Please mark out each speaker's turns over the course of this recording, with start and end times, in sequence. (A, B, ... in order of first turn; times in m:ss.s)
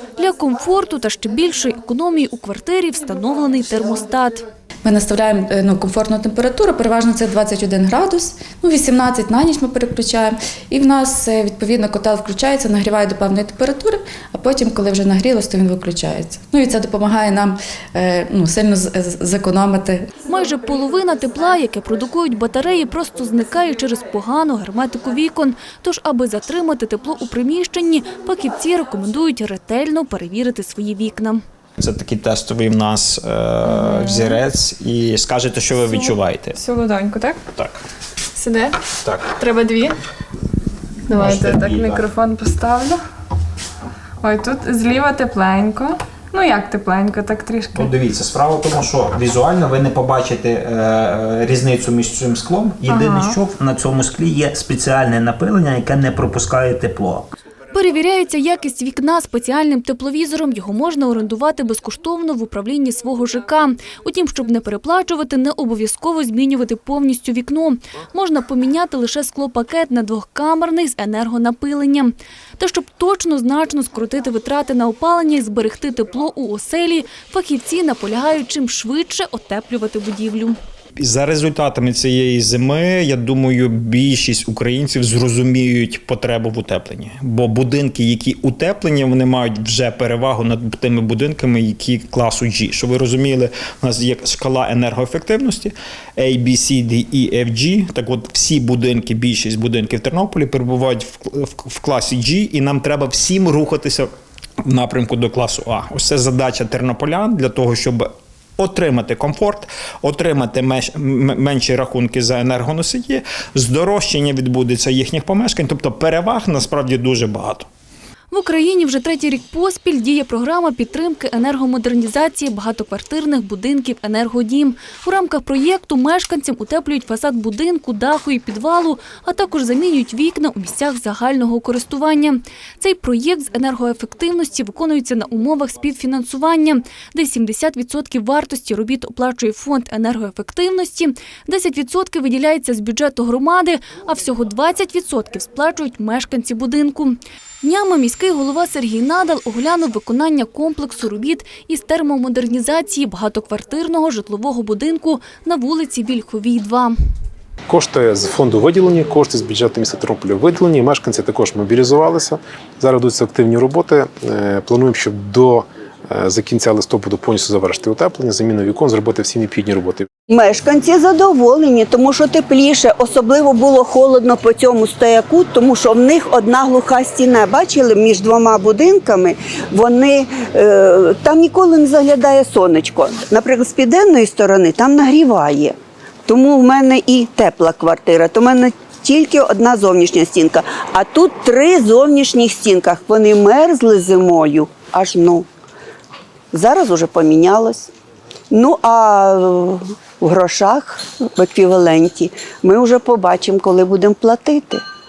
0:00.2-0:04.4 A
0:04.8-0:20.0 B
0:20.3-0:31.4 A
0:31.8-0:36.6 C
0:33.9-0:34.3 D
0:36.5-0:37.4 D
0:38.3-0:38.8 D
0:39.0-0:39.3 C
0:39.4-0:40.0 D
0:41.1-0:43.0 D
0:41.1-0:42.0 C
0:44.2-0:47.9 D
0:47.7-0:57.3 C
0:52.9-0:53.4 D
0:57.7-1:20.6 A
1:21.0-1:44.1 C
1:44.6-1:48.1 C
1:48.6-1:57.7 C
1:58.3-2:37.0 A
2:37.7-2:50.0 E
2:50.3-3:15.4 F
3:16.5-3:17.9 F
3:18.5-3:24.8 F